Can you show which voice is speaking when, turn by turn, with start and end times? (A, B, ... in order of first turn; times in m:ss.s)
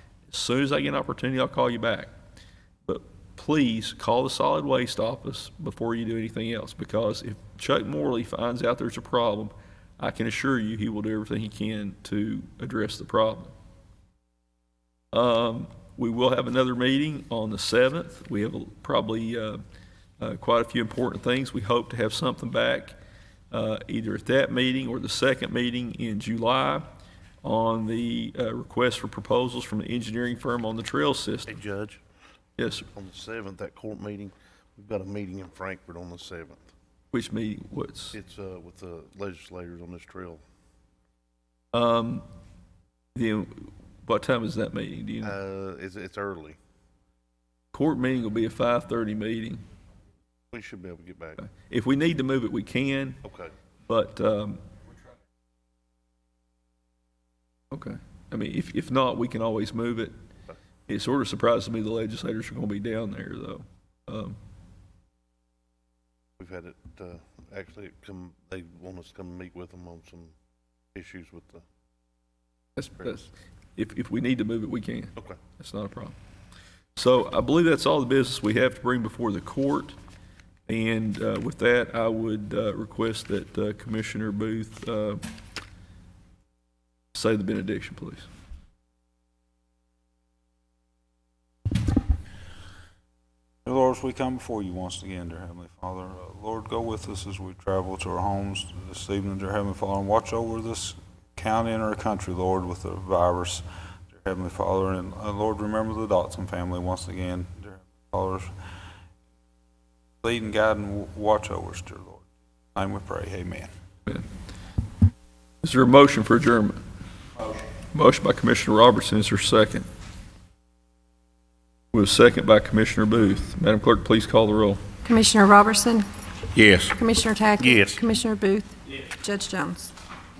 0:00.3-0:02.1 A
0:02.8-0:13.5 A
0:15.1-0:19.6 A
0:20.2-0:23.0 A
0:23.5-0:26.8 A
0:27.4-0:31.6 A
0:31.5-0:32.0 B
0:32.6-0:32.9 A
0:32.9-0:36.7 B
0:37.1-0:38.2 A
0:38.1-0:40.4 B
0:41.7-0:42.2 A
0:43.1-0:45.4 A
0:45.2-0:46.6 B
0:47.7-0:49.6 A
0:50.5-0:51.4 B
0:51.4-0:53.2 A
0:53.2-0:53.5 B
0:53.9-0:54.6 A
0:57.7-1:00.1 A
1:00.9-1:04.4 A
1:06.4-1:10.3 B
1:10.9-1:11.6 B
1:12.8-1:16.1 A
1:17.0-1:20.0 A
1:20.7-1:25.2 A
1:27.1-1:28.3 A
1:33.6-1:48.5 C
1:50.2-1:53.7 C
1:55.6-1:56.8 A
1:57.9-1:59.8 A
2:01.9-2:04.8 A
2:05.0-2:06.0 D
2:06.5-2:07.0 B
2:07.0-2:09.9 D
2:07.6-2:08.0 B